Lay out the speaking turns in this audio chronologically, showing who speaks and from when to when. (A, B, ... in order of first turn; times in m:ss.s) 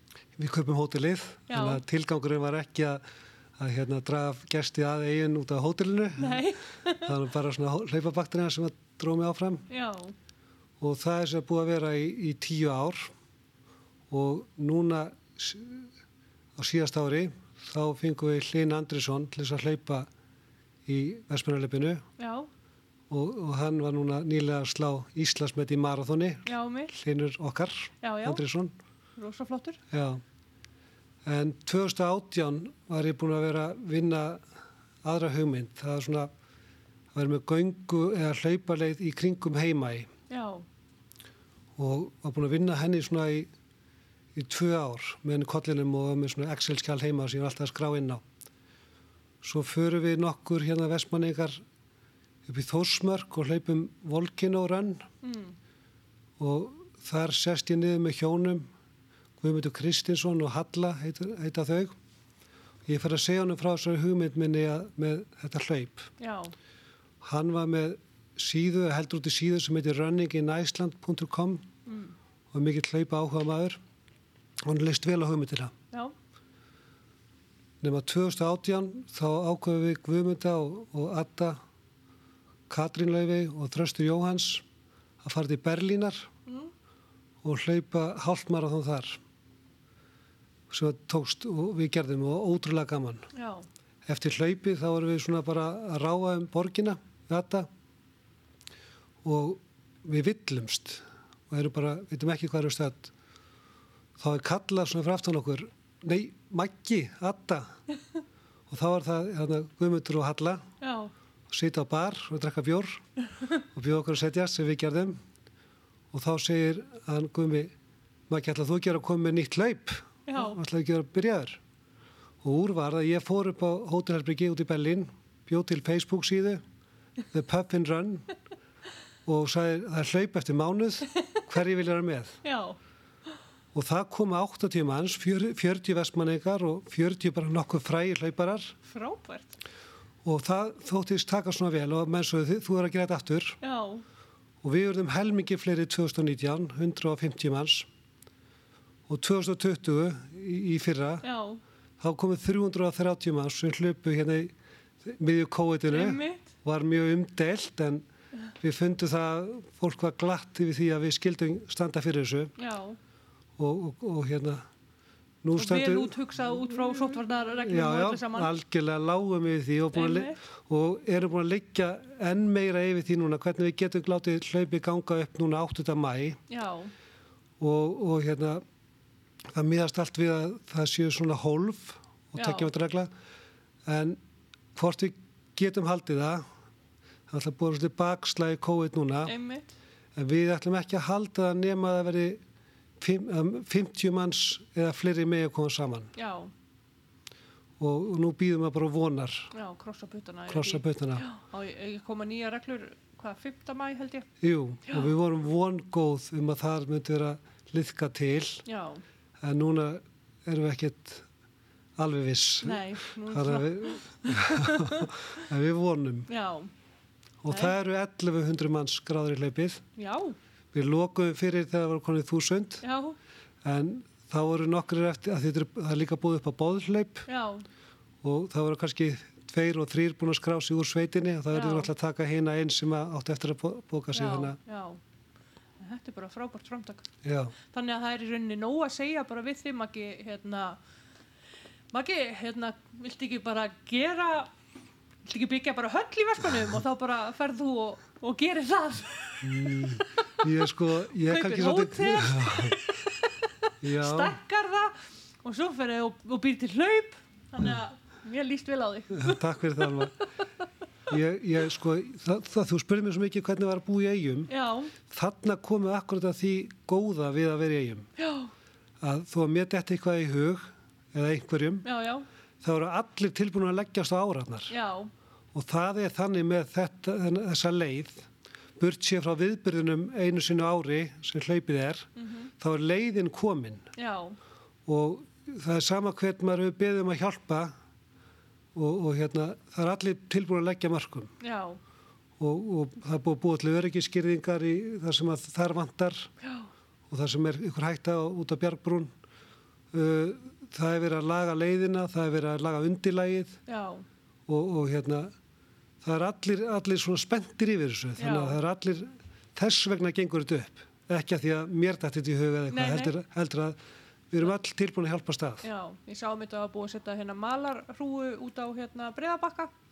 0:00.4-0:03.0 A
0:01.5-0:01.8 B
0:03.6-0:06.5 A
0:06.2-0:07.1 B
0:07.0-0:09.6 A
0:09.7-0:10.1 B
0:10.8-0:13.1 A
0:14.1-0:15.9 A
0:16.6-0:20.1 A
0:20.8-0:22.0 A
0:22.2-0:22.5 B
0:23.1-0:28.7 A
0:26.4-0:26.9 B
0:28.0-0:28.4 B
0:29.2-0:29.8 B
0:29.9-0:30.2 A
0:31.2-0:34.4 A
0:35.0-0:36.3 A
0:37.1-0:40.1 A
0:40.3-0:40.6 B
0:41.8-0:43.5 A
0:44.3-0:48.2 A
0:49.4-0:51.6 A
0:52.4-0:55.0 A
0:55.2-0:55.6 B
0:56.4-0:58.7 A
0:59.4-1:01.9 A
1:02.8-1:06.1 A
1:06.2-1:06.5 B
1:07.2-1:11.7 A
1:11.8-1:12.1 B
1:12.5-1:13.8 A
1:14.6-1:15.7 A
1:17.8-1:21.6 A
1:22.7-1:24.6 A
1:25.2-1:26.3 A
1:27.4-1:29.2 A
1:30.7-1:33.2 A
1:33.3-1:33.6 B
1:34.0-1:37.7 A
1:39.2-1:43.1 A
1:44.2-1:47.7 A
1:48.7-1:50.6 A
1:50.8-1:51.1 B
1:51.5-1:53.0 A
1:53.7-1:55.2 A
1:56.1-1:57.7 A
1:58.3-2:01.6 A
2:00.3-2:00.6 B
2:02.4-2:06.6 A
2:07.3-2:08.3 A
2:09.2-2:12.4 A
2:12.4-2:12.8 B
2:13.7-2:18.8 A
2:18.8-2:19.6 B
2:20.2-2:23.6 A
2:23.6-2:24.0 B
2:24.6-2:27.9 A
2:29.1-2:31.2 A
2:31.2-2:31.6 B
2:32.0-2:38.0 A
2:35.9-2:36.5 B
2:38.6-2:42.5 A
2:42.6-2:43.0 B
2:43.6-2:44.6 A
2:45.4-2:46.2 A
2:45.6-2:48.5 B
2:47.6-2:56.4 A
2:49.9-2:50.4 B
2:56.5-2:56.9 B
2:57.6-2:58.6 A
2:59.5-3:03.1 A
3:02.3-3:02.7 B
3:03.8-3:04.2 A
3:04.7-3:06.4 A
3:07.3-3:09.3 A
3:09.2-3:09.7 B
3:10.2-3:12.4 A
3:13.0-3:16.1 A
3:16.2-3:16.5 B
3:17.8-3:19.5 A
3:19.5-3:24.3 B
3:20.5-3:21.2 A
3:24.4-3:28.6 A
3:28.6-3:29.0 B
3:29.4-3:31.2 A
3:32.0-3:36.3 A
3:32.6-3:35.1 B
3:36.3-3:36.7 B
3:37.4-3:39.8 A
3:37.5-3:37.7 B
3:40.0-3:40.4 B
3:40.7-3:42.8 A
3:42.8-3:43.2 B
3:43.6-3:47.3 A
3:47.3-3:47.6 B
3:48.2-3:54.6 A
3:51.5-3:51.9 B
3:54.1-3:55.0 B
3:55.8-3:57.0 B
3:57.2-3:57.5 A
3:57.7-4:00.8 B
4:01.9-4:04.5 B
4:05.2-4:10.0 B
4:09.4-4:12.8 A
4:11.2-4:14.9 B
4:13.8-4:14.4 A
4:15.4-4:19.4 B
4:19.1-4:20.1 A
4:21.1-4:24.5 A
4:24.5-4:24.9 B
4:25.1-4:28.1 A
4:28.2-4:28.5 B
4:29.0-4:31.8 A
4:31.8-4:32.2 B
4:32.6-4:34.7 A
4:34.7-4:35.1 B
4:35.5-4:38.3 A
4:38.8-4:42.1 A
4:42.2-4:42.5 B
4:42.6-4:43.8 A
4:44.0-4:44.4 B
4:44.8-4:47.7 A
4:48.7-4:51.3 A
4:51.4-4:51.8 B
4:52.4-4:56.3 A
4:57.1-4:59.1 A
4:59.9-5:03.6 A
5:03.7-5:04.0 B
5:04.5-5:05.3 A
5:06.0-5:13.8 A
5:08.2-5:08.6 B
5:12.7-5:13.1 B
5:14.3-5:15.6 A
5:15.6-5:19.7 B